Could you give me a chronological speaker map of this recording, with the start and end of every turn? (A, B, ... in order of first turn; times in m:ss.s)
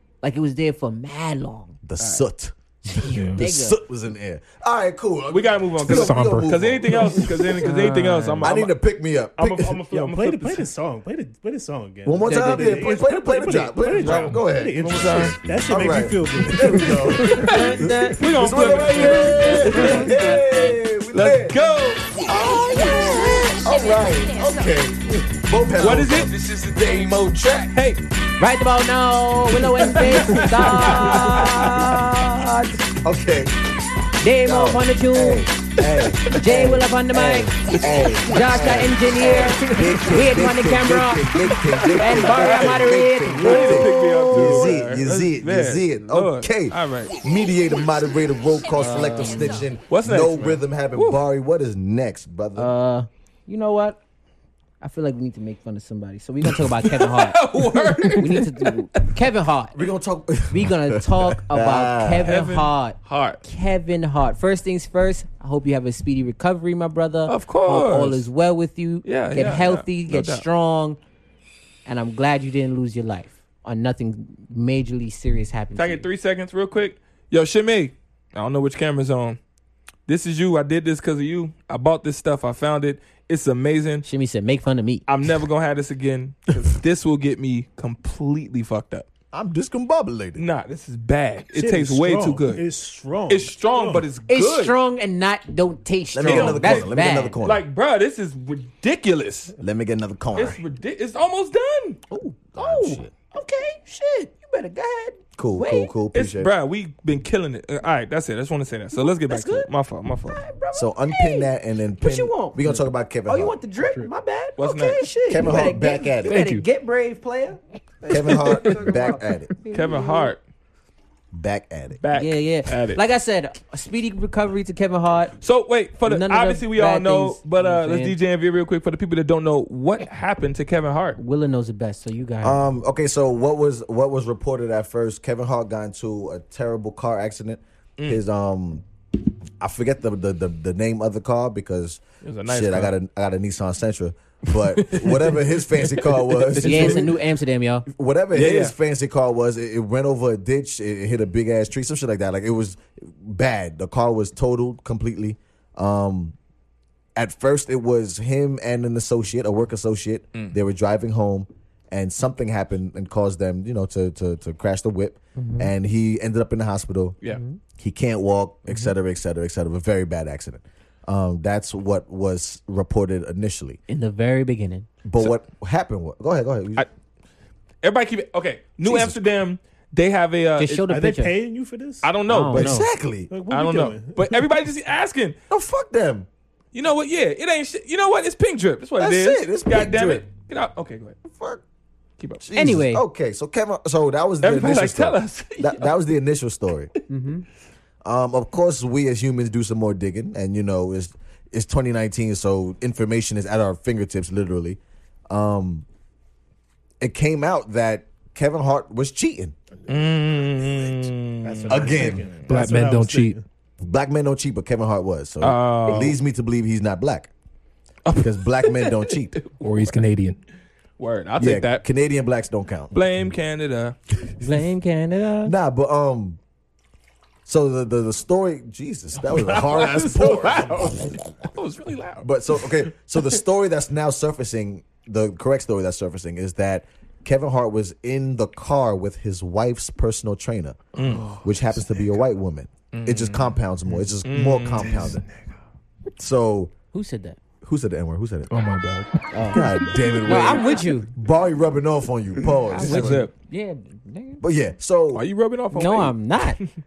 0:00.2-0:01.8 A
0:01.8-0:07.5 B
0:02.0-0:02.2 C
0:02.9-0:03.8 A
0:03.0-0:03.4 D
0:05.3-0:08.7 C
0:05.8-0:07.2 D
0:07.6-0:08.4 A
0:07.8-0:08.4 D
0:08.4-0:09.8 B
0:09.4-0:10.7 C
0:09.9-0:17.3 E
0:12.0-0:21.6 B
0:12.2-0:12.8 A
0:14.0-0:15.4 C
0:17.1-0:20.2 C
0:17.3-0:20.4 A
0:21.1-0:22.8 C
0:22.1-0:27.7 B
0:25.8-0:28.0 C
0:28.4-0:32.8 A
0:29.8-0:31.9 C
0:30.9-0:31.6 B
0:33.0-0:33.5 B
0:34.2-0:35.5 A
0:34.4-0:52.7 B
0:35.8-0:36.3 C
0:36.3-0:37.6 A
0:37.8-0:38.8 C
0:38.2-0:41.4 A
0:39.3-0:40.0 C
0:41.6-0:47.2 C
0:41.9-0:44.7 A
0:48.7-0:49.6 A
0:49.9-0:51.2 C
0:52.6-0:54.0 A
0:54.8-0:59.8 A
0:56.6-0:59.1 C
0:59.7-1:02.3 B
1:00.5-1:11.0 A
1:02.2-1:03.4 C
1:07.3-1:08.3 C
1:09.0-1:10.4 C
1:11.8-1:16.1 A
1:15.7-1:19.4 C
1:20.1-1:24.0 C
1:24.0-1:25.0 A
1:25.1-1:29.1 C
1:29.3-1:30.4 B
1:30.4-1:32.6 C
1:31.5-1:34.0 E
1:33.3-1:34.7 C
1:34.3-1:37.4 A
1:36.1-1:37.6 B
1:36.2-1:36.9 C
1:37.4-1:39.5 C
1:39.6-1:40.6 B
1:40.3-1:42.0 C
1:42.1-1:43.1 B
1:42.4-1:45.9 A
1:45.4-1:46.5 B
1:46.1-1:50.4 C
1:48.9-1:49.7 A
1:50.3-2:00.3 A
1:50.7-1:53.6 B
1:53.8-1:54.1 D
1:54.6-1:55.0 C
1:55.3-1:56.4 B
1:56.2-1:56.6 D
1:58.1-1:59.5 B
1:59.7-2:00.4 C
2:01.3-2:02.0 B
2:02.0-2:03.0 C
2:02.1-2:05.4 A
2:05.4-2:11.2 C
2:06.0-2:08.2 A
2:11.2-2:12.6 A
2:12.4-2:18.8 B
2:19.6-2:27.1 B
2:22.2-2:22.9 C
2:26.6-2:27.0 C
2:26.6-2:27.8 A
2:27.9-2:36.3 B
2:28.3-2:28.7 C
2:37.2-2:47.2 B
2:45.4-2:45.7 A
2:47.3-2:47.6 A
2:47.8-2:53.8 B
2:53.9-2:54.9 A
2:55.0-2:56.8 B
2:57.8-3:00.9 C
2:58.8-2:59.2 B
3:00.6-3:01.3 A
3:00.9-3:02.1 E
3:02.0-3:02.8 C
3:02.3-3:02.9 A
3:02.5-3:03.3 B
3:03.3-3:04.4 E
3:03.5-3:05.4 C
3:05.5-3:06.3 B
3:06.7-3:11.2 C
3:09.0-3:10.2 B
3:11.2-3:11.6 B
3:12.4-3:16.9 B
3:12.5-3:13.0 A
3:14.4-3:15.9 C
3:17.1-3:17.4 A
3:18.0-3:25.8 B
3:27.0-3:29.5 B
3:29.9-3:32.2 C
3:30.6-3:30.9 E
3:31.4-3:33.4 E
3:31.6-3:33.4 D
3:31.7-3:32.3 B
3:33.8-3:37.3 B
3:35.4-3:36.1 C
3:38.0-3:39.5 C
3:38.1-3:39.4 B
3:39.6-3:40.4 D
3:41.0-3:41.8 C
3:41.4-3:43.0 B
3:42.9-3:44.0 C
3:44.4-3:45.5 A
3:45.4-3:46.4 B
3:47.4-3:51.0 B
3:49.3-3:53.2 C
3:52.2-4:00.9 B
4:00.9-4:01.3 C
4:01.0-4:01.8 D
4:01.4-4:05.2 B
4:02.9-4:03.6 C
4:04.2-4:05.2 C
4:04.8-4:05.2 D
4:06.2-4:06.7 B
4:06.9-4:07.4 A
4:07.6-4:08.5 B
4:08.5-4:10.0 D
4:09.3-4:11.1 A
4:09.5-4:13.3 B
4:12.7-4:14.4 A
4:12.8-4:13.3 C
4:14.4-4:15.2 B
4:15.1-4:16.6 C
4:15.7-4:16.6 A